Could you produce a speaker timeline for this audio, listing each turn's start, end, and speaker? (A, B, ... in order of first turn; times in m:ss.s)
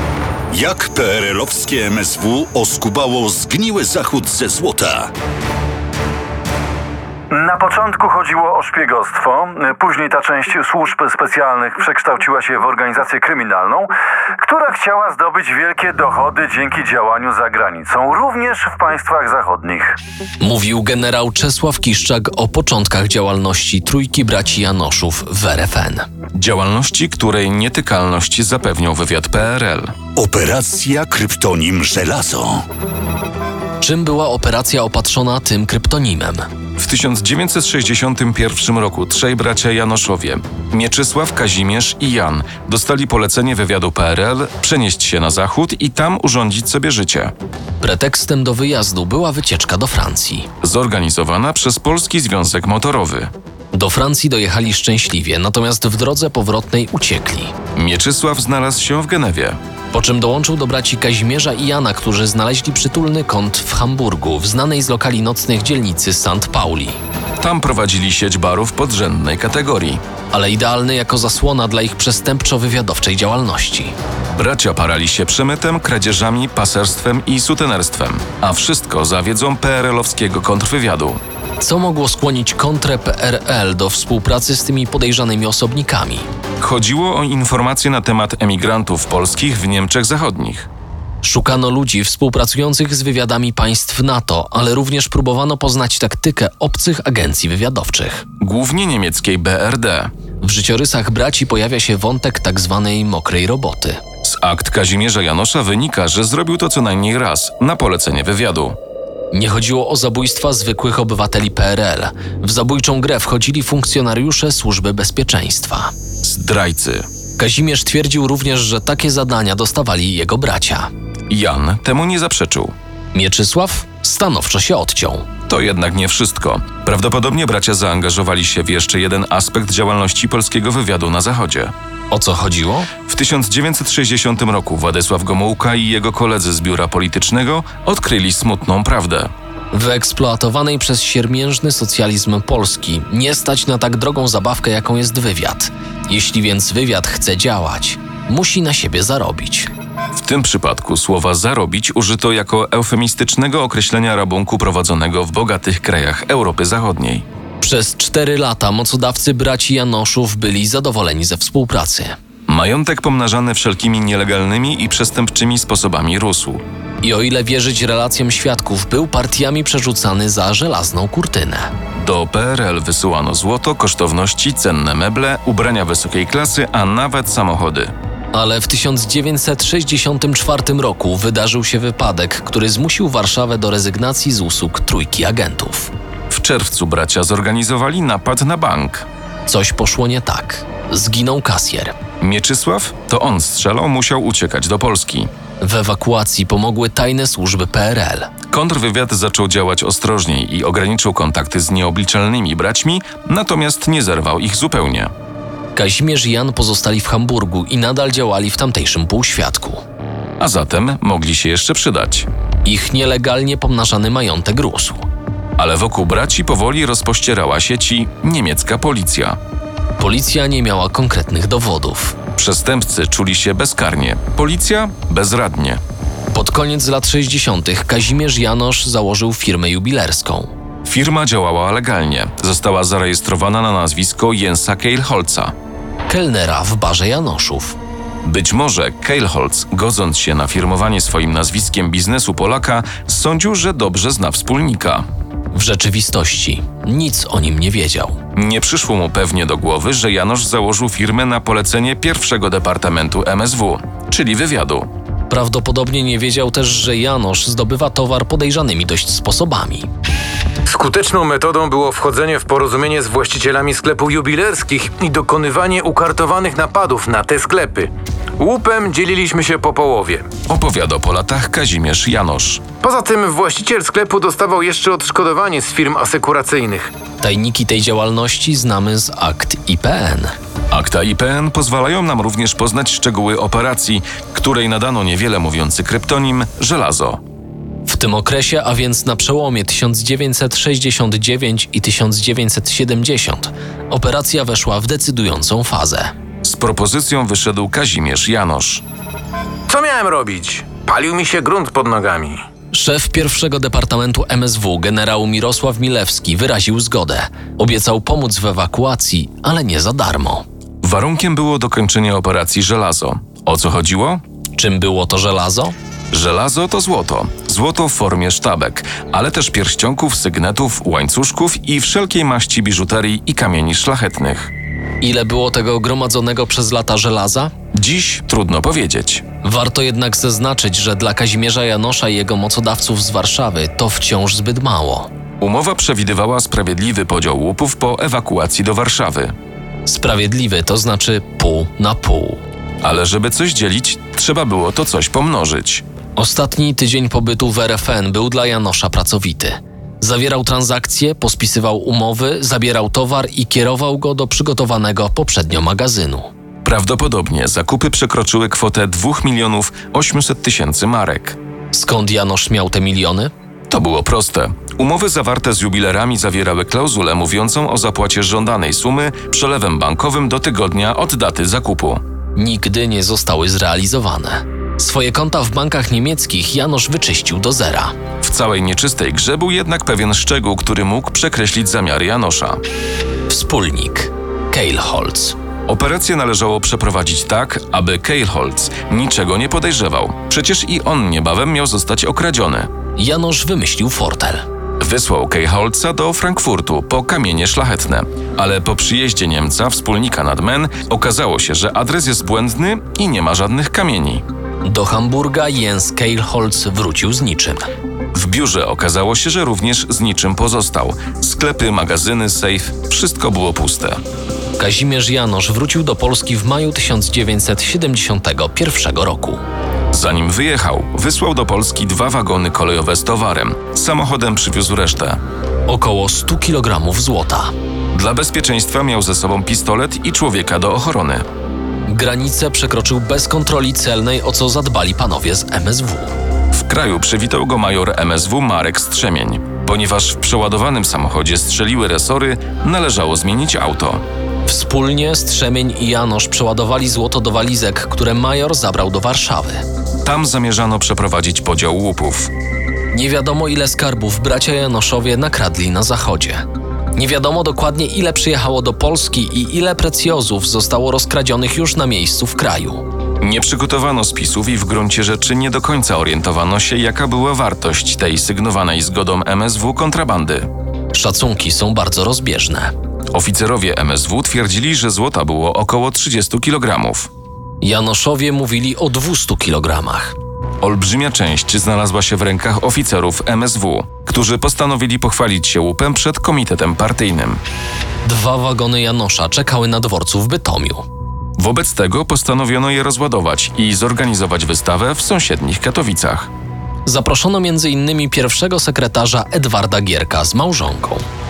0:00.5-0:05.1 A
0:07.3-0:20.0 B
0:20.4-0:26.1 C
0:26.3-0:29.9 D
0:30.1-0:32.6 A
0:33.8-0:36.5 C
0:36.8-0:47.3 D
0:47.8-0:50.5 C
0:50.6-0:53.3 D
0:53.7-0:57.5 C
0:57.8-0:59.6 D
0:59.9-1:07.0 C
1:07.4-1:10.0 D
1:10.3-1:13.9 C
1:14.3-1:21.2 D
1:21.6-1:26.2 C
1:26.6-1:30.7 D
1:31.2-1:38.3 C
1:38.4-1:40.1 D
1:40.4-1:44.0 C
1:44.2-1:48.8 D
1:49.3-1:55.9 C
1:56.2-1:57.1 D
1:57.4-2:00.9 C
2:01.3-2:02.7 D
2:03.1-2:05.3 C
2:05.5-2:11.7 D
2:12.1-2:12.9 C
2:13.1-2:19.3 D
2:19.7-2:29.7 C
2:30.1-2:37.2 D
2:37.6-2:42.1 C
2:42.5-2:46.6 D
2:47.0-2:51.7 C
2:52.0-2:57.9 D
2:58.3-3:05.9 C
3:06.3-3:09.1 D
3:09.4-3:12.0 C
3:12.2-3:15.3 D
3:15.6-3:18.3 C
3:18.5-3:25.1 D
3:25.7-3:29.8 C
3:30.4-3:32.3 D
3:32.6-3:35.0 C
3:35.6-3:39.4 D
3:40.0-3:42.2 C
3:42.4-3:45.8 D
3:46.3-3:50.5 C
3:50.8-3:55.5 D
3:56.1-3:57.8 C
3:58.2-4:05.0 D
4:05.5-4:08.2 C
4:08.3-4:14.9 D
4:15.3-4:19.9 C
4:20.7-4:30.3 E
4:30.5-4:32.6 D
4:32.8-4:36.9 E
4:37.2-4:40.3 C
4:40.7-4:47.2 D
4:47.8-4:56.1 C
4:56.4-4:58.8 D
4:59.7-5:02.4 E
5:02.7-5:10.4 C
5:10.8-5:14.2 D
5:14.5-5:15.7 C
5:16.1-5:24.5 D
5:25.0-5:27.5 C
5:27.8-5:29.2 D
5:29.4-5:35.1 C
5:35.4-5:39.3 D
5:39.8-5:42.4 C
5:42.8-5:45.8 D
5:46.2-5:56.3 C
5:56.6-6:01.4 D
6:01.7-6:03.3 C
6:03.7-6:12.0 D
6:12.4-6:17.9 C
6:18.2-6:22.6 D
6:23.3-6:25.4 C
6:25.7-6:32.7 D
6:33.0-6:34.4 C
6:34.8-6:44.2 D
6:44.6-6:47.6 C
6:48.1-6:54.0 D
6:54.6-6:59.4 C
6:59.9-7:05.2 D
7:05.7-7:07.5 C
7:07.9-7:11.2 D
7:11.9-7:16.1 C
7:16.5-7:24.0 D
7:24.4-7:29.6 C
7:30.0-7:32.3 D
7:32.9-7:42.8 C
7:43.2-7:50.5 D
7:50.9-7:52.7 C
7:53.1-7:57.1 D
7:57.6-8:00.2 C
8:00.6-8:07.4 D
8:08.0-8:10.8 C
8:11.4-8:16.3 D
8:16.8-8:21.0 C